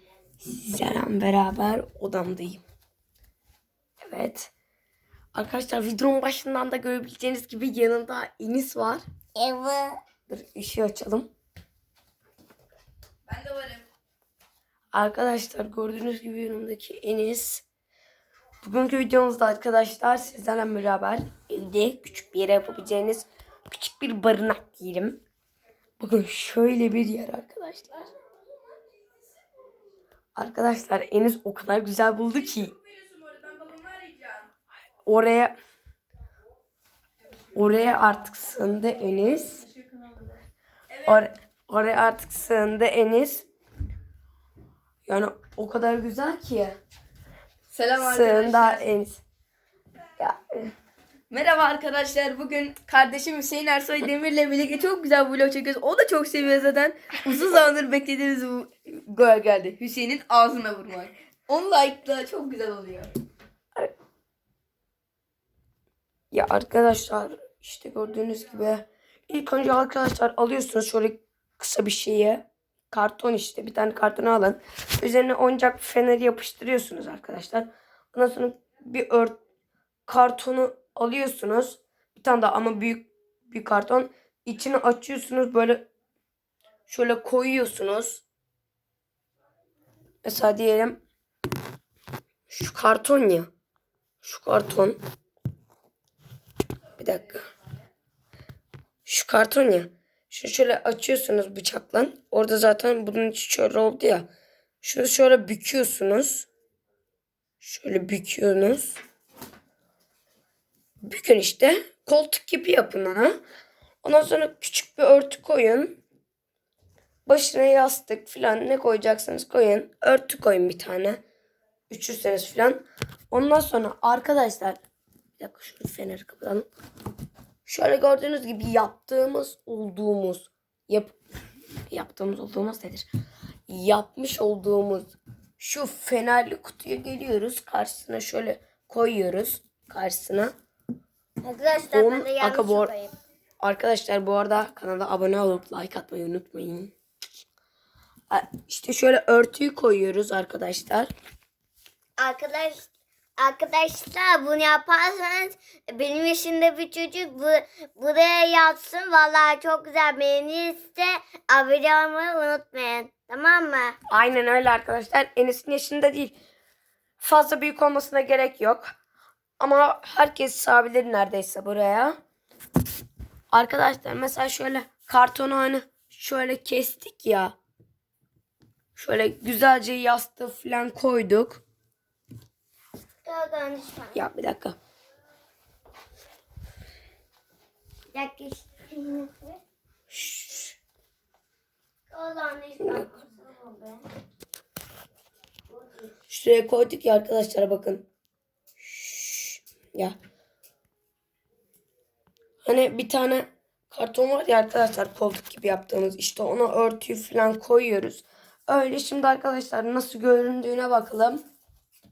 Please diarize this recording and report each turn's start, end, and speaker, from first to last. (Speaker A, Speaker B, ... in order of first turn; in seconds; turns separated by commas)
Speaker A: 0.4-2.6, Speaker A: 4.0-4.5, Speaker A: 5.3-9.0, Speaker B: 9.4-10.0, Speaker A: 10.3-11.3, Speaker C: 13.3-13.8, Speaker A: 14.9-17.6, Speaker A: 18.6-25.2, Speaker A: 26.0-28.1, Speaker A: 30.4-32.8, Speaker C: 33.2-34.4, Speaker A: 35.0-35.5, Speaker A: 37.5-39.7, Speaker A: 41.0-43.5, Speaker A: 45.1-46.8, Speaker C: 47.7-48.9, Speaker A: 48.0-49.2, Speaker A: 50.2-50.7, Speaker C: 51.3-63.1, Speaker A: 66.3-79.4, Speaker A: 80.1-85.8, Speaker A: 86.9-88.2, Speaker A: 90.2-91.0, Speaker A: 92.5-93.5, Speaker A: 94.2-95.0, Speaker A: 97.0-97.5, Speaker A: 99.1-104.3, Speaker A: 104.8-106.5, Speaker A: 107.6-109.0, Speaker A: 111.0-113.3, Speaker A: 114.0-116.0, Speaker A: 117.3-121.2, Speaker A: 121.9-124.8, Speaker A: 125.4-126.7, Speaker A: 127.7-131.2, Speaker A: 131.9-133.1, Speaker A: 133.7-140.5, Speaker B: 141.4-143.2, Speaker A: 141.9-142.9, Speaker A: 143.6-146.9, Speaker A: 148.3-151.1, Speaker B: 152.2-152.9, Speaker B: 153.4-164.0, Speaker A: 164.1-166.4, Speaker A: 167.2-168.9, Speaker A: 169.6-172.2, Speaker A: 173.5-177.6, Speaker A: 179.0-181.6, Speaker B: 183.2-184.2, Speaker A: 184.1-184.8, Speaker B: 188.1-189.6, Speaker A: 190.1-190.8, Speaker B: 192.1-194.1, Speaker A: 192.8-193.1, Speaker B: 195.7-196.1, Speaker A: 196.3-198.1, Speaker A: 198.8-200.2, Speaker A: 202.6-211.4